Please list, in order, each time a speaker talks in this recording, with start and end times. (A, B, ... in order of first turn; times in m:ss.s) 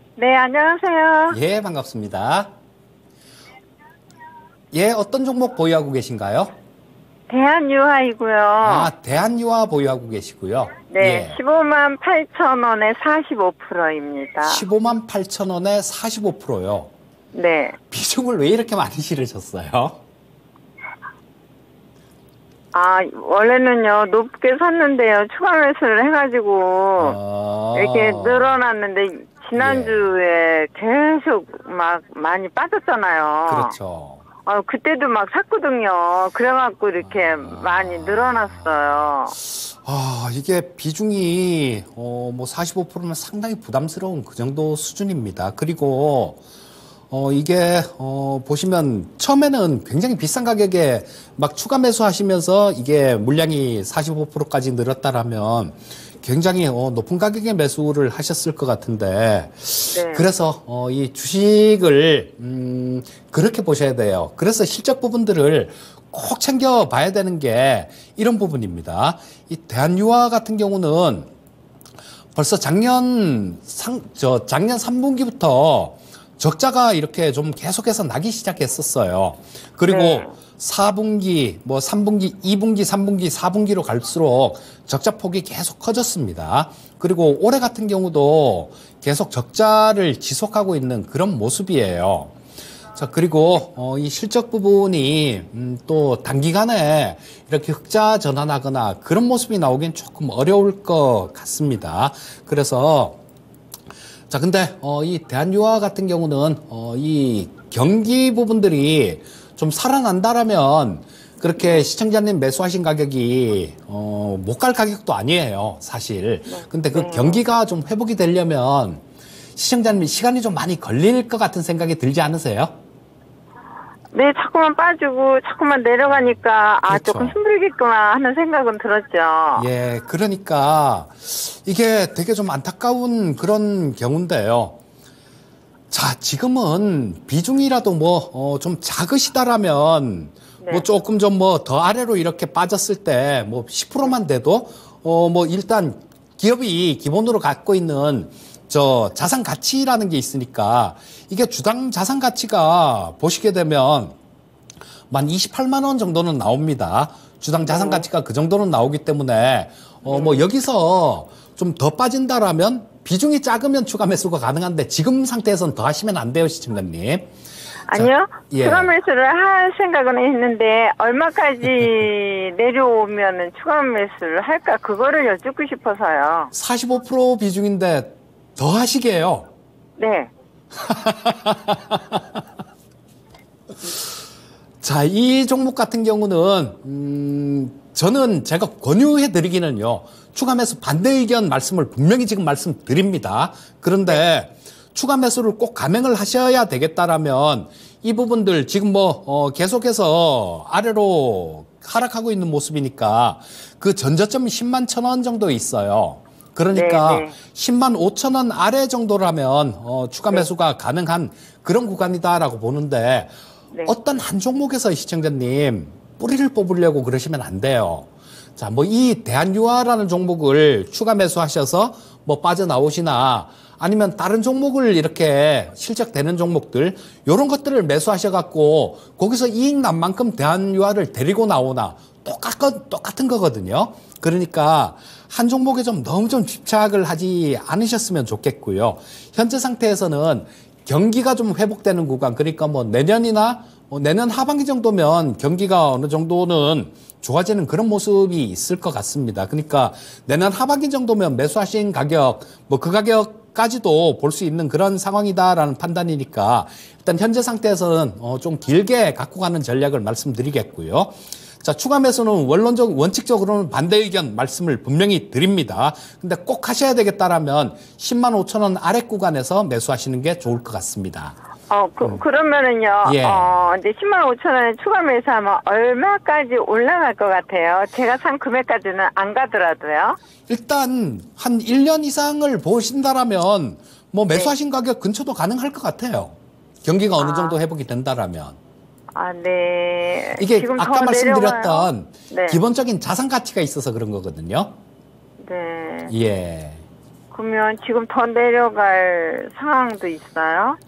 0:00.2-0:01.4 A
0:01.3-0:02.5 B
0:04.7-0:06.6 B
0:07.3-0:08.9 A
0:08.6-0:11.4 B
0:10.9-0:14.6 A
0:14.4-0:16.9 B
0:17.3-0:17.8 A
0:17.9-0:20.0 B
0:22.7-0:27.2 A
0:27.0-0:28.6 B
0:27.7-0:33.7 A
0:29.6-0:30.1 B
0:33.5-0:34.2 B
0:34.4-0:39.4 A
0:37.3-0:46.4 B
0:47.1-1:11.3 B
0:59.9-1:00.3 A
1:12.3-1:32.3 B
1:19.9-1:20.3 A
1:33.0-1:43.2 B
1:44.3-1:59.0 B
1:56.5-1:57.4 A
1:59.6-2:02.7 B
2:04.1-2:09.7 A
2:06.1-2:07.4 B
2:09.6-2:14.8 B
2:15.9-2:34.2 B
2:20.6-2:20.9 A
2:35.1-2:47.3 B
2:37.7-2:38.0 A
2:40.0-2:40.5 A
2:47.9-2:56.5 A
2:47.9-2:48.9 B
2:56.5-2:59.5 B
3:00.0-3:00.3 A
3:00.8-3:02.2 B
3:04.8-3:33.3 B
3:26.7-3:27.4 A
3:33.8-4:31.4 B
4:31.7-4:40.2 A
4:33.0-4:33.7 B
4:40.5-4:48.6 B
4:47.2-4:47.6 A
4:49.1-4:52.6 A
4:50.4-4:54.7 B
4:55.4-4:56.1 A
4:56.1-4:56.8 B
4:57.3-5:00.8 A